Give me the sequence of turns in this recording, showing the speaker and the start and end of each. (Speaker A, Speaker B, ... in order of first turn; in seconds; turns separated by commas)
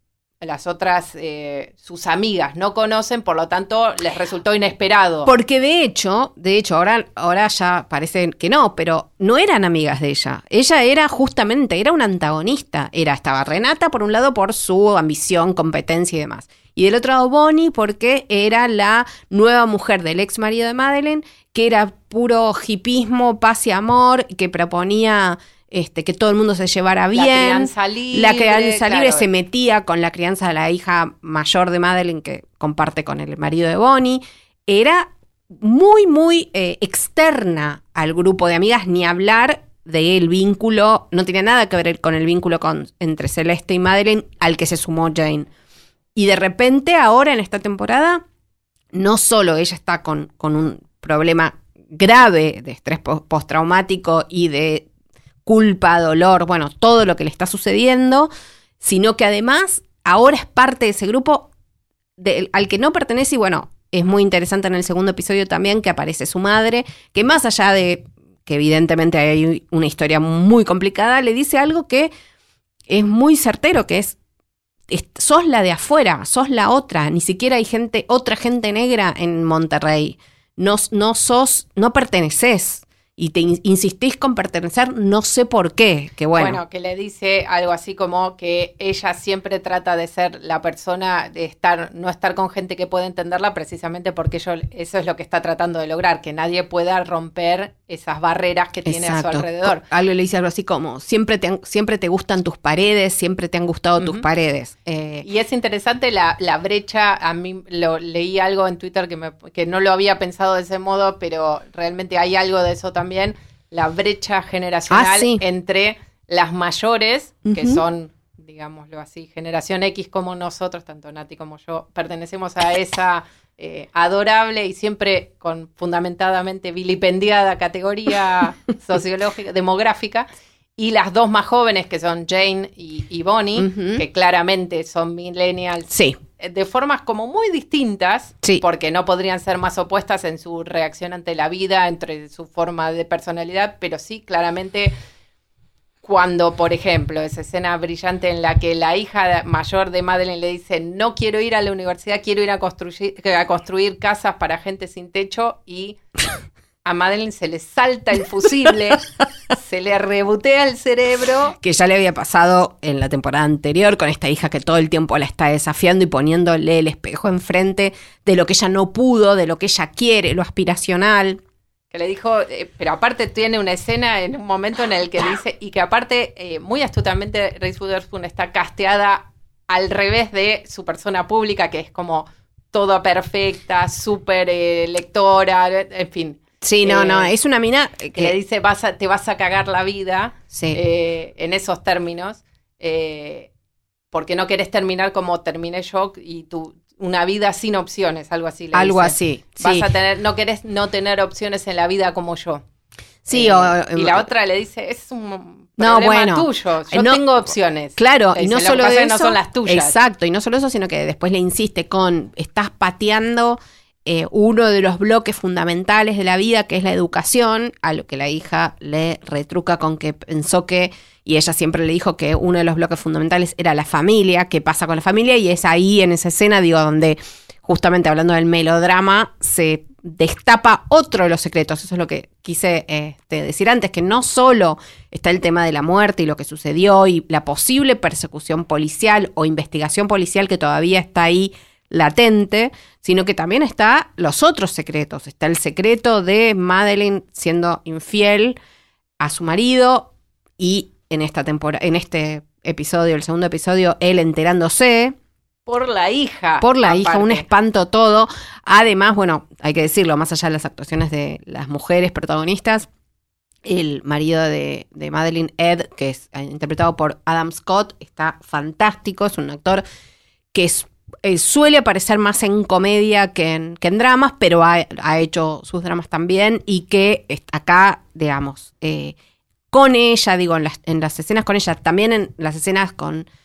Speaker A: 0.4-5.3, Speaker B: 5.2-45.5, Speaker A: 27.1-29.2, Speaker B: 46.1-48.2, Speaker B: 48.9-54.9, Speaker B: 55.5-58.3, Speaker B: 58.8-61.5, Speaker B: 62.2-72.1, Speaker B: 72.9-74.2, Speaker B: 74.9-86.6, Speaker A: 86.3-99.8, Speaker B: 98.8-105.2, Speaker A: 104.0-104.2, Speaker A: 105.2-144.9, Speaker B: 114.9-115.4, Speaker B: 117.5-117.8, Speaker B: 133.6-134.0, Speaker B: 135.9-136.2, Speaker A: 146.0-156.0, Speaker A: 156.8-161.6, Speaker B: 161.6-171.4, Speaker A: 171.9-187.3, Speaker B: 186.6-188.3, Speaker A: 188.1-193.5, Speaker B: 190.5-190.8, Speaker A: 194.1-202.6, Speaker B: 198.7-199.9, Speaker B: 203.2-204.3, Speaker A: 203.3-209.9, Speaker B: 205.8-207.2, Speaker B: 208.0-248.6, Speaker B: 249.2-255.1, Speaker A: 255.7-257.5, Speaker B: 256.6-262.9, Speaker B: 263.6-269.8, Speaker B: 270.5-279.1, Speaker B: 279.7-283.3